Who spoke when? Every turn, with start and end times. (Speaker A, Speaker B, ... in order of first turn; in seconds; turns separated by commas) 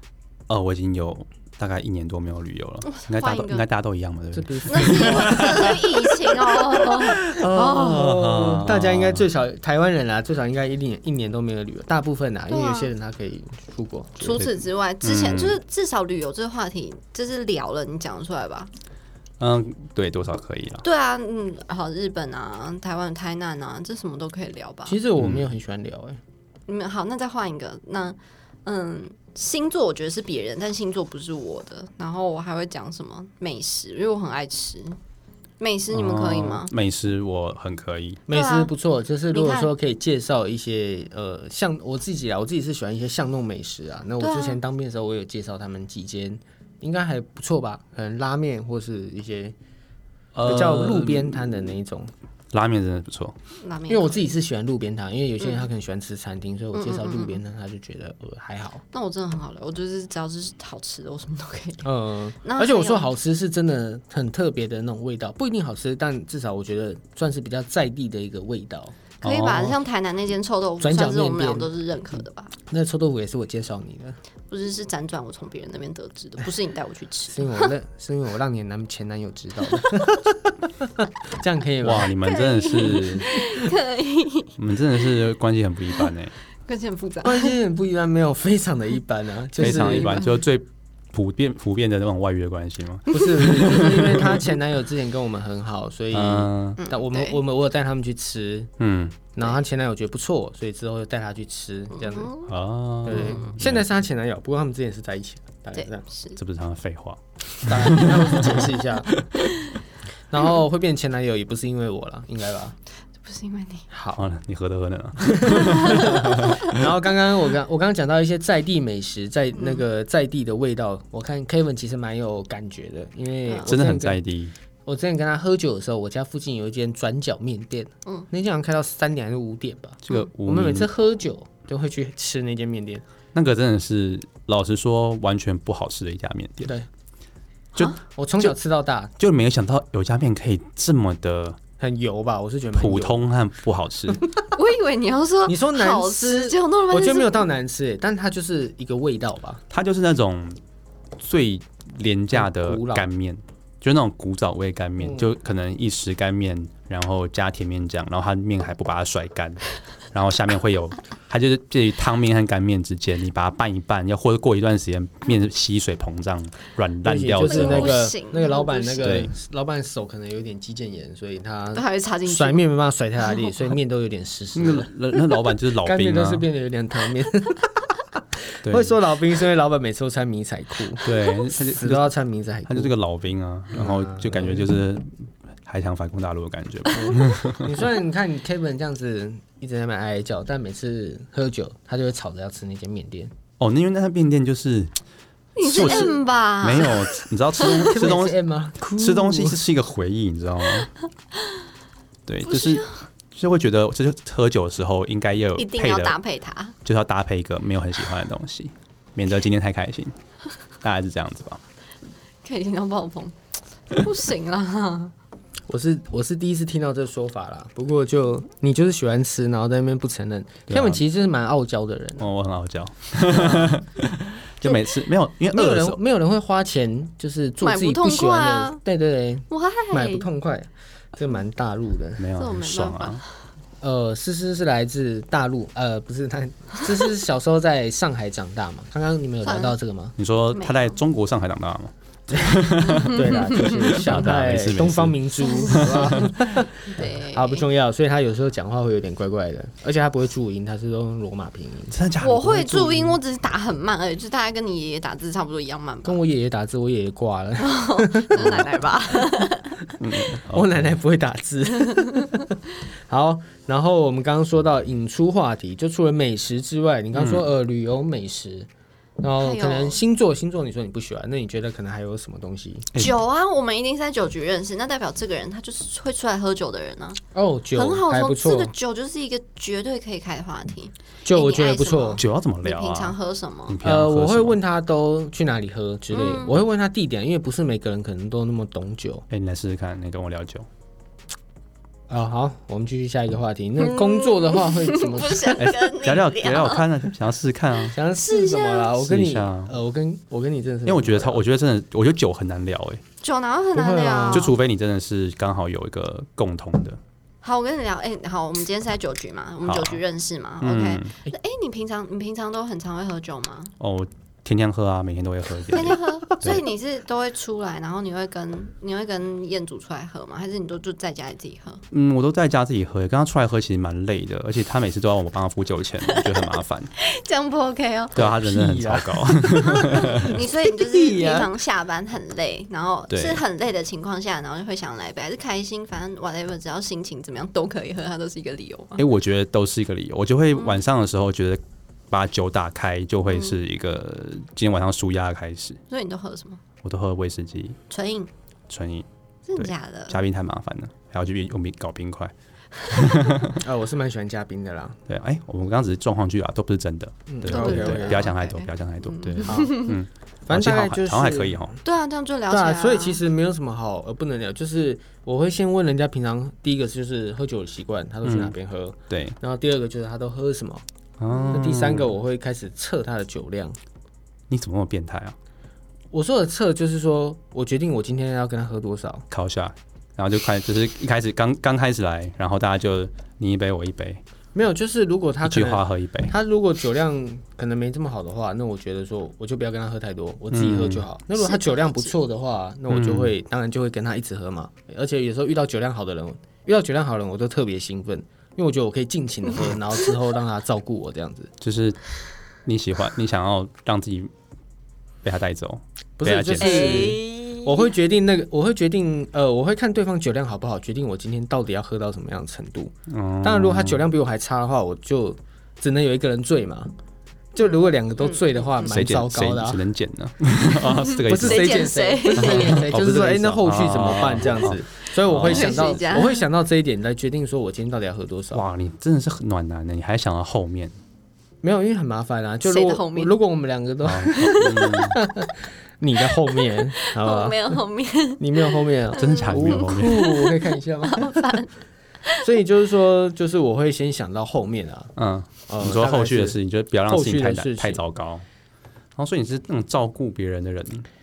Speaker A: 0.5-5.7, Speaker B: 2.8-3.6, Speaker C: 4.3-14.4, Speaker B: 4.7-8.0, Speaker A: 7.4-9.2, Speaker B: 12.5-12.9, Speaker B: 14.2-18.7, Speaker A: 14.3-15.6, Speaker A: 19.4-20.8, Speaker B: 20.8-25.0, Speaker C: 24.9-26.2, Speaker A: 25.2-25.5, Speaker B: 26.7-35.0, Speaker B: 35.6-36.7, Speaker A: 35.9-38.2, Speaker C: 38.3-49.5, Speaker B: 38.3-38.7, Speaker B: 39.3-39.7, Speaker B: 44.2-44.6, Speaker A: 50.3-51.4, Speaker C: 50.4-52.1, Speaker A: 52.5-53.4, Speaker B: 53.6-54.3, Speaker C: 53.9-58.8, Speaker B: 56.7-57.4, Speaker B: 58.9-61.9, Speaker C: 61.8-69.0, Speaker B: 62.4-63.1, Speaker B: 69.2-72.5, Speaker A: 69.2-69.8, Speaker C: 70.8-71.7, Speaker C: 72.7-74.2, Speaker B: 74.5-77.7, Speaker C: 77.3-82.1, Speaker A: 81.8-83.3, Speaker B: 82.2-84.5, Speaker A: 84.6-86.3, Speaker B: 86.7-87.5, Speaker C: 87.2-90.2, Speaker A: 89.6-94.5, Speaker B: 89.6-90.3, Speaker C: 93.1-98.7, Speaker A: 96.1-96.8, Speaker B: 96.8-97.4, Speaker A: 98.8-99.2, Speaker C: 99.3-102.3, Speaker B: 101.9-102.5, Speaker A: 102.5-103.8, Speaker C: 103.0-106.0, Speaker B: 103.1-103.5, Speaker B: 105.7-106.4, Speaker A: 106.3-109.4, Speaker C: 107.6-109.2, Speaker C: 110.3-112.8, Speaker B: 113.2-113.8, Speaker C: 113.9-114.2, Speaker A: 114.1-116.8, Speaker C: 115.2-124.2, Speaker B: 115.6-116.5, Speaker B: 119.5-119.8, Speaker A: 123.6-124.5, Speaker C: 124.8-133.0, Speaker A: 130.0-130.9, Speaker A: 133.3-136.7, Speaker A: 137.8-138.5, Speaker C: 138.0-139.1, Speaker A: 139.2-141.6, Speaker C: 141.8-143.2, Speaker A: 142.7-144.2, Speaker B: 144.5-147.5, Speaker C: 145.5-149.6, Speaker A: 149.7-150.6, Speaker A: 151.2-168.0, Speaker C: 152.3-153.1, Speaker C: 155.0-155.3, Speaker C: 167.0-174.9, Speaker B: 167.4-169.2, Speaker A: 169.0-169.3, Speaker B: 171.7-172.6, Speaker A: 174.5-176.5, Speaker C: 175.8-178.0, Speaker C: 178.5-182.9, Speaker A: 178.6-178.9, Speaker A: 181.0-182.1, Speaker A: 182.7-185.1, Speaker C: 183.7-184.7, Speaker A: 185.6-187.8, Speaker C: 186.9-193.3, Speaker A: 193.6-194.9, Speaker B: 195.6-197.9, Speaker A: 195.6-200.9, Speaker C: 197.7-199.6, Speaker A: 202.2-206.2, Speaker B: 202.4-203.0, Speaker B: 205.6-206.7, Speaker A: 206.8-210.2, Speaker A: 210.8-211.6, Speaker B: 212.4-213.3, Speaker B: 213.9-215.1, Speaker C: 215.7-222.3, Speaker A: 220.7-221.0, Speaker A: 222.2-226.0, Speaker C: 223.3-223.7, Speaker C: 225.5-232.2, Speaker B: 227.6-228.8, Speaker B: 229.5-230.2, Speaker A: 232.2-233.2, Speaker B: 232.3-233.2, Speaker C: 233.8-240.2, Speaker B: 239.4-239.8, Speaker A: 240.2-246.3, Speaker B: 240.5-241.0, Speaker C: 242.3-252.0, Speaker B: 242.8-243.9, Speaker B: 245.4-247.7, Speaker A: 251.9-253.2, Speaker B: 252.2-256.2, Speaker C: 256.0-259.2, Speaker B: 257.6-259.8, Speaker A: 258.4-258.7, Speaker A: 260.0-260.9, Speaker C: 260.3-268.7, Speaker B: 261.8-262.3, Speaker A: 267.1-267.4, Speaker C: 269.2-272.9, Speaker B: 269.4-270.0, Speaker B: 272.9-277.2, Speaker C: 277.3-278.7, Speaker B: 277.7-283.8, Speaker C: 281.2-282.2, Speaker A: 282.2-283.1, Speaker A: 283.7-284.6, Speaker C: 283.8-289.2, Speaker B: 286.1-286.6, Speaker A: 289.3-290.7, Speaker C: 292.1-295.6, Speaker B: 293.8-296.9, Speaker A: 295.6-298.0, Speaker C: 297.9-301.4, Speaker B: 298.2-298.9, Speaker A: 298.9-299.7, Speaker A: 300.9-303.0, Speaker B: 303.2-304.5, Speaker C: 303.7-304.5, Speaker A: 304.3-307.0, Speaker B: 307.4-313.7, Speaker A: 309.6-310.0, Speaker A: 310.6-311.1, Speaker A: 313.8-316.6, Speaker B: 315.7-321.8, Speaker A: 321.9-326.9, Speaker B: 326.1-326.4, Speaker B: 327.0-328.2, Speaker A: 328.1-330.4, Speaker C: 328.1-331.5, Speaker B: 329.7-339.0, Speaker A: 333.1-333.4, Speaker A: 339.0-345.8, Speaker B: 343.3-343.6, Speaker B: 345.9-346.6, Speaker A: 346.8-347.8, Speaker B: 347.9-348.3, Speaker A: 348.7-352.3, Speaker B: 349.5-350.2, Speaker A: 352.8-353.6, Speaker C: 353.6-355.0, Speaker A: 355.1-361.8, Speaker C: 357.3-358.3, Speaker B: 357.5-359.9, Speaker C: 359.4-359.9, Speaker C: 360.4-361.8, Speaker B: 361.8-363.2, Speaker C: 362.5-370.8, Speaker A: 368.2-368.6, Speaker A: 369.1-369.4, Speaker A: 371.2-372.1, Speaker B: 371.3-371.6, Speaker C: 371.5-373.8, Speaker A: 374.5-375.4, Speaker C: 376.1-379.2, Speaker A: 379.3-384.2, Speaker C: 384.5-401.5, Speaker A: 385.4-386.3, Speaker A: 390.5-391.1, Speaker B: 391.3-392.1, Speaker A: 392.9-393.3, Speaker A: 401.6-402.0, Speaker A: 402.6-404.3, Speaker A: 405.2-407.2, Speaker C: 406.2-416.9, Speaker B: 406.6-407.9, Speaker A: 413.1-414.1, Speaker C: 417.5-419.8, Speaker B: 417.6-418.7, Speaker A: 418.8-426.0, Speaker B: 421.1-422.9, Speaker C: 421.2-428.6, Speaker B: 425.3-426.5, Speaker A: 428.5-431.0, Speaker C: 431.6-437.8, Speaker B: 432.6-433.3, Speaker A: 434.0-435.2, Speaker B: 434.3-435.0, Speaker B: 436.3-441.7, Speaker C: 438.4-441.6, Speaker A: 439.1-440.3, Speaker C: 442.4-445.1, Speaker A: 445.2-448.4, Speaker C: 445.7-448.0, Speaker A: 449.1-451.1